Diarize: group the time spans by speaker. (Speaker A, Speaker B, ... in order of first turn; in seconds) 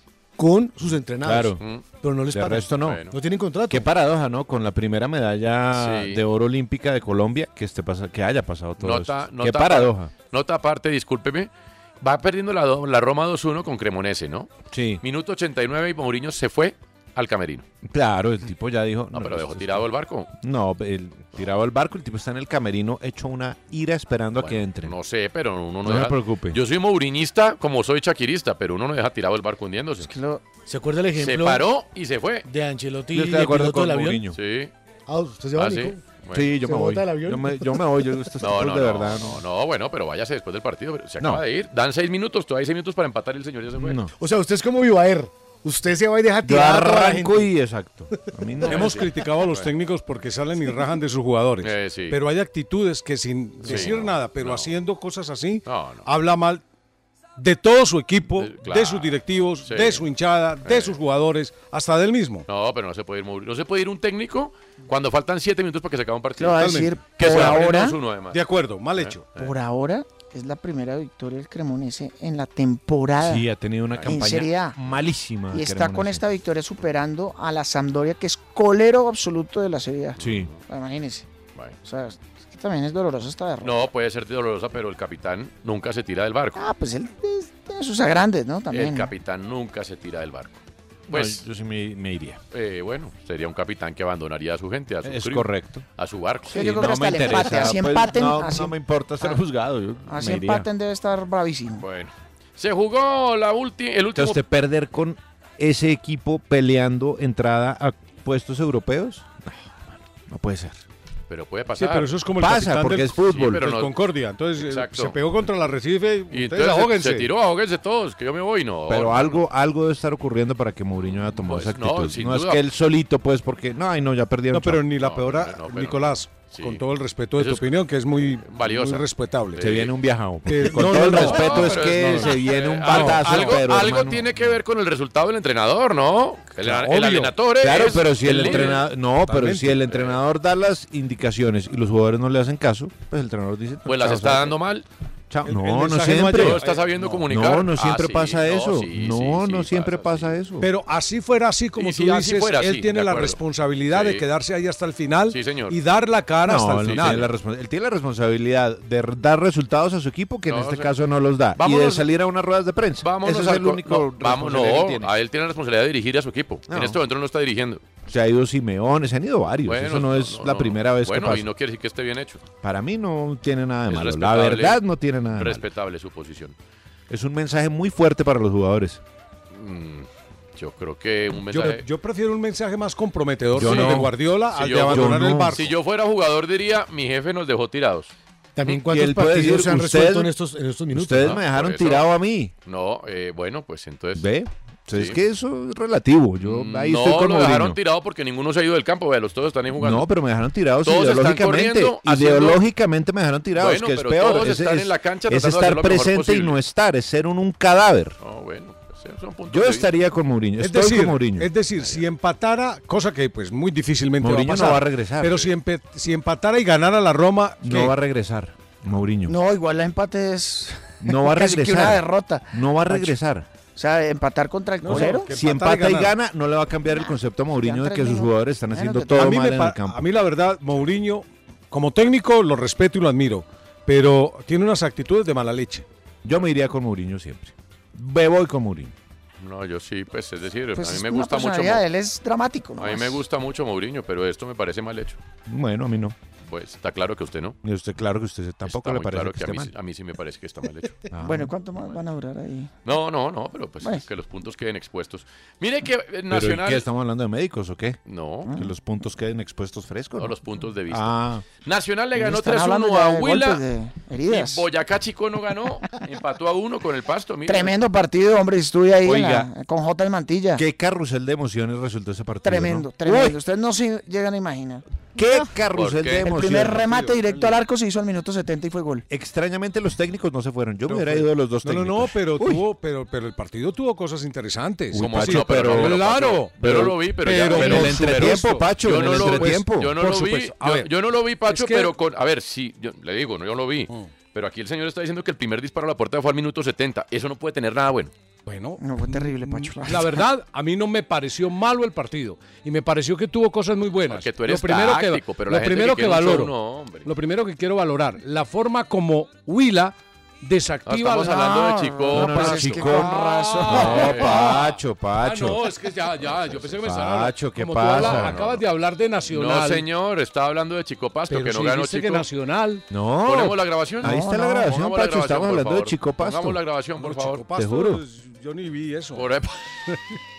Speaker A: 0.4-3.9, 30.7-31.7, 32.5-34.2, 35.1-36.0, 36.6-37.8, 44.2-47.5, 188.6-191.3
Speaker B: 1.2-1.6, 2.3-3.0, 3.7-10.1, 14.7-15.0, 17.9-19.9, 20.4-24.9, 25.8-26.6, 33.1-34.4, 36.3-39.4, 43.8-44.1, 46.4-49.0, 73.2-76.3, 80.2-80.5, 91.1-92.4, 95.0-95.8, 96.5-100.7, 104.2-110.8, 112.4-113.7, 118.9-124.8, 129.6-134.6, 137.6-144.6, 145.3-150.7, 156.4-165.2, 166.7-167.0, 168.1-171.5, 172.6-175.7, 177.1-179.0, 183.5-184.2, 184.9-185.7, 188.9-190.3, 190.9-192.5, 194.2-197.8, 199.8-208.2, 209.5-211.5, 214.2-215.4, 217.6-219.4, 221.0-223.5, 224.9-230.1, 236.2-238.9, 245.5-246.2, 247.6-249.7, 251.1-251.6, 256.3-260.4, 260.9-261.4, 269.0-269.5, 270.5-273.4, 275.1-276.9, 279.1-282.6, 284.9-286.1, 286.6-290.0, 312.1-315.6, 316.6-318.4, 322.9-326.6, 327.6-328.0
Speaker C: 2.8-3.1, 5.7-6.2, 8.8-14.5, 15.0-17.6, 19.1-20.3, 24.4-30.1, 31.2-32.5, 34.3-34.7, 35.6-36.5, 38.4-44.0, 48.6-49.7, 51.6-52.2, 53.7-54.7, 55.6-56.1, 58.4-60.0, 60.6-61.0, 62.5-66.6, 67.1-68.4, 69.0-69.5, 73.9-74.2, 80.2-80.6, 83.6-86.7, 88.7-91.5, 92.5-96.8, 101.8-104.4, 111.3-112.1, 113.3-113.9, 114.6-115.2, 116.3-119.4, 121.0-122.6, 125.0-126.8, 127.4-127.7, 128.4-129.9, 130.8-138.9, 139.8-140.2, 143.9-144.9, 146.2-150.4, 151.8-154.2, 155.3-155.8, 156.8-157.3, 160.5-160.9, 161.6-162.1, 163.0-167.8, 169.7-172.4, 173.9-174.8, 175.3-176.6, 179.5-181.8, 183.6-188.1, 191.2-192.1, 192.7-194.3, 194.9-195.2, 196.4-200.1, 200.8-202.6, 203.6-206.6, 208.2-209.9, 211.8-212.0, 239.4-241.8, 242.8-245.2, 246.4-247.6, 248.7-251.1, 252.8-256.9, 258.1-258.5, 260.2-263.6, 264.3-267.8, 275.7-276.4, 284.9-298.1, 304.1-307.1, 310.9-312.9, 313.7-314.6, 316.1-316.8, 318.0-318.6, 319.3-322.3, 323.2-327.4, 329.1-329.6
Speaker D: 30.0-30.5, 66.4-68.0, 69.3-73.5, 74.0-74.8, 75.5-81.3, 81.8-83.8, 86.6-89.1, 96.5-99.4, 100.1-101.8, 219.3-223.2, 223.8-225.3, 226.9-229.3, 240.8-243.2, 251.2-252.7, 258.5-258.7, 262.1-264.7, 267.5-270.6, 272.4-274.8, 276.2-279.1, 298.8-300.3, 311.2-314.3, 324.0-324.7
Speaker E: 48.6-56.6, 57.4-62.5, 66.5-69.3, 111.8-117.3, 124.5-129.7, 130.5-133.7, 136.6-137.3, 138.1-139.8, 145.4-147.2, 150.6-157.3, 181.5-185.7, 210.6-217.9, 224.8-226.1, 229.1-235.8, 276.7-277.6, 280.9-290.9, 291.5-291.9, 298.5-306.5, 307.1-311.5, 312.3-319.9, 321.3-322.9, 327.0-329.3, 329.9-330.1